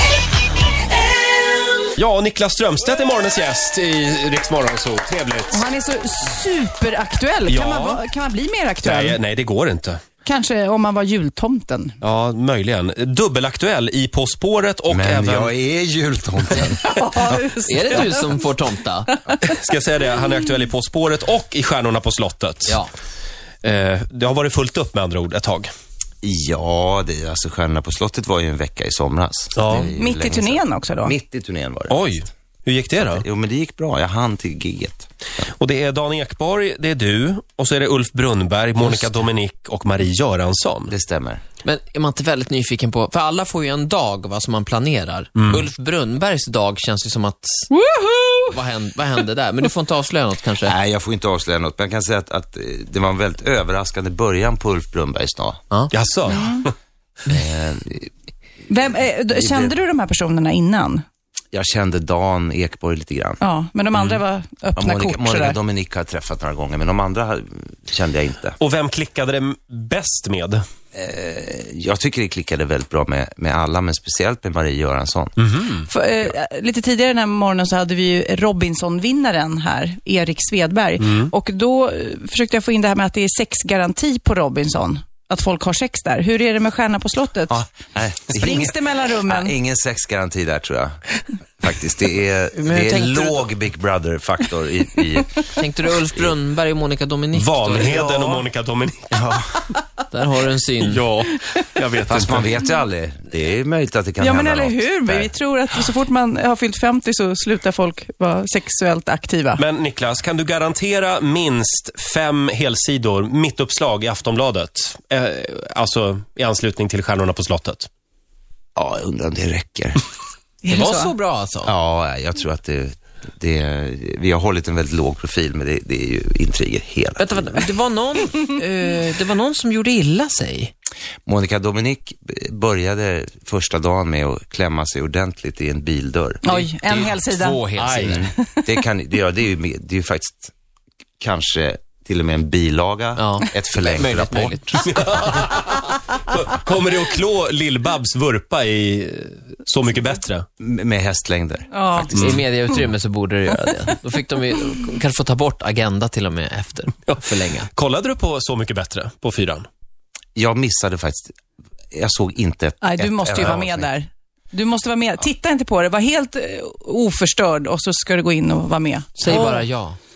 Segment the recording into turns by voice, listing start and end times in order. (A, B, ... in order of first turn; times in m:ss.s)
0:02.0-0:05.6 A
0:05.5-0:09.2 B
0:07.5-0:08.0 A
0:08.8-0:10.0 A
0:10.2-0:12.0 B
0:12.0-0:15.5 A
0:14.9-0:16.8 C
0:16.7-0:18.4 B
0:17.6-0:19.2 D
0:19.4-0:22.8 A
0:23.6-0:25.7 A
0:26.2-0:32.0 C
0:29.6-0:29.9 A
0:29.9-0:31.1 B
0:31.9-0:33.2 A
0:33.0-0:35.1 C
0:35.6-0:40.9 A
0:38.8-0:39.1 D
0:40.9-0:41.4 C
0:41.6-0:47.7 D
0:45.4-0:45.6 A
0:47.7-0:48.6 B
0:48.5-0:50.7 D
0:50.6-0:55.6 C
0:55.9-0:56.7 A
0:56.3-0:56.6 B
0:57.3-0:58.1 C
0:58.7-1:01.0 B
0:59.3-0:59.7 C
1:01.5-1:03.4 C
1:03.4-1:05.6 B
1:04.8-1:08.6 C
1:08.6-1:10.6 A
1:10.9-1:15.4 C
1:15.4-1:15.9 A
1:15.9-1:27.6 B
1:21.0-1:21.3 A
1:27.5-1:31.0 C
1:28.3-1:29.5 B
1:31.6-1:35.4 C
1:32.6-1:33.5 D
1:35.6-1:37.9 D
1:37.4-1:39.1 A
1:37.8-1:38.5 C
1:39.1-1:39.6 C
1:40.1-1:41.1 D
1:40.8-1:42.5 A
1:42.1-1:45.3 C
1:44.2-1:49.6 B
1:49.6-1:57.9 A
1:58.8-2:00.0 C
2:00.6-2:01.1 B
2:00.7-2:01.7 D
2:01.6-2:07.7 C
2:07.2-2:10.7 D
2:11.3-2:16.4 C
2:16.4-2:17.7 B
2:16.5-2:18.3 D
2:17.8-2:18.2 A
2:18.1-2:20.5 C
2:18.2-2:18.7 B
2:21.2-2:24.9 C
2:23.2-2:24.8 D
2:24.8-2:30.4 A
2:30.6-2:32.4 C
2:31.7-2:32.1 B
2:32.1-2:32.4 A
2:32.1-2:37.7 D
2:37.1-2:39.7 A
2:40.4-2:41.4 C
2:41.9-2:43.9 C
2:42.8-2:49.7 B
2:49.2-2:50.0 D